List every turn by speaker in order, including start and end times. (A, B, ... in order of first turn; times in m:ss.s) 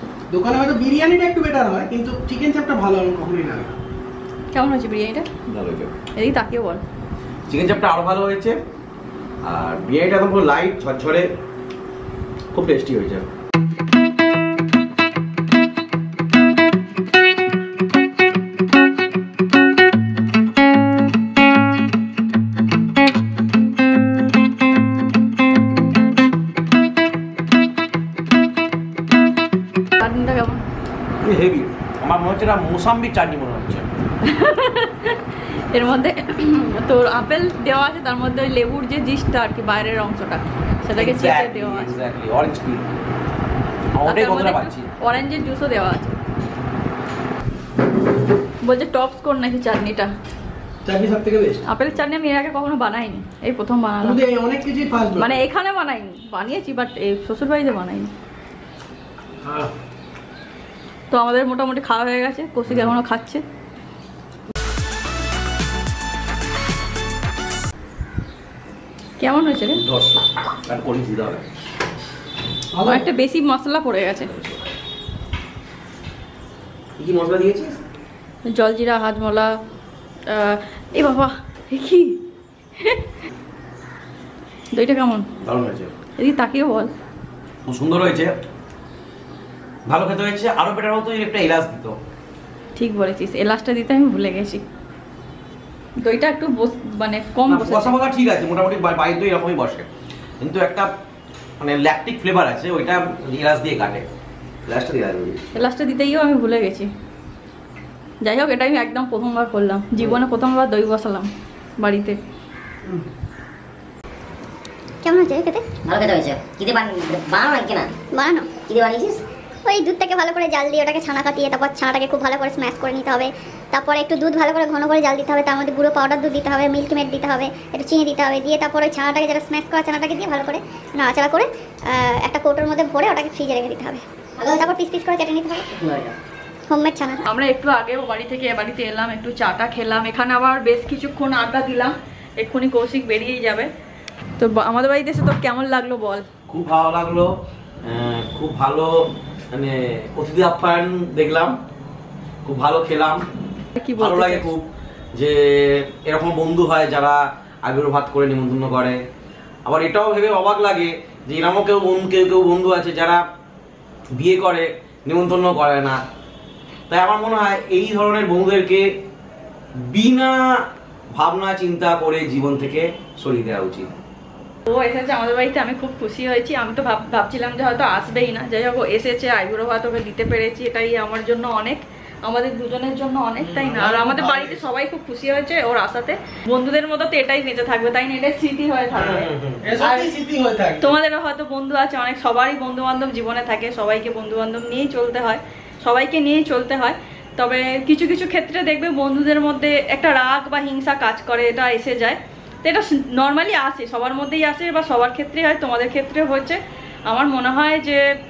0:00.3-0:03.8 A
0:04.5-0:05.3 B
0:05.5-0:05.9 C
0:06.2-0:06.8 B
0:07.5-0:08.6 C
0:09.4-0:11.3 C
0:12.5-0:13.3 C
0:30.0-0:30.6 B
0:31.2-0:33.9 C
0:34.2-0:35.2 B
0:35.7-0:42.0 B
0:41.0-0:42.9 C
0:43.9-0:44.9 C
0:44.0-0:46.2 B
0:48.6-0:50.1 B
0:50.8-0:51.6 A
0:51.6-0:54.2 B
0:54.0-0:55.4 A
0:55.2-0:58.1 B
0:59.4-0:59.7 A
1:01.1-1:03.4 B
1:02.7-1:02.9 C
1:09.2-1:09.8 B
1:09.7-1:11.5 C
1:12.7-1:13.1 A
1:12.8-1:14.3 B
1:14.3-1:14.6 C
1:17.0-1:17.8 C
1:18.5-1:19.6 B
1:20.3-1:22.2 B
1:24.7-1:25.2 B
1:25.4-1:25.9 C
1:26.2-1:26.9 B
1:27.6-1:28.3 C
1:29.9-1:32.0 C
1:32.8-1:34.6 B
1:36.0-1:38.0 B
1:37.5-1:39.9 C
1:40.4-1:40.9 C
1:41.6-1:44.1 C
1:44.6-1:45.4 C
1:45.5-1:46.9 B
1:48.2-1:52.2 B
1:55.0-1:55.7 D
1:55.9-1:57.9 E
1:58.1-1:58.6 D
1:58.6-1:59.2 E
1:59.6-2:15.7 D
2:14.4-2:14.8 E
2:15.7-2:16.2 E
2:16.7-2:17.2 D
2:17.2-2:23.7 B
2:24.4-2:26.2 B
2:26.5-2:31.6 C
2:32.4-2:33.2 C
2:33.8-2:34.5 B
2:34.0-2:39.0 C
2:39.6-2:43.2 C
2:44.1-2:46.0 C
2:46.9-2:48.9 C
2:49.8-2:50.5 C
2:51.1-2:53.9 C
2:54.7-3:09.3 B
3:03.4-3:04.6 A
3:08.9-3:10.9 A
3:09.8-3:10.1 B
3:10.8-3:28.0 B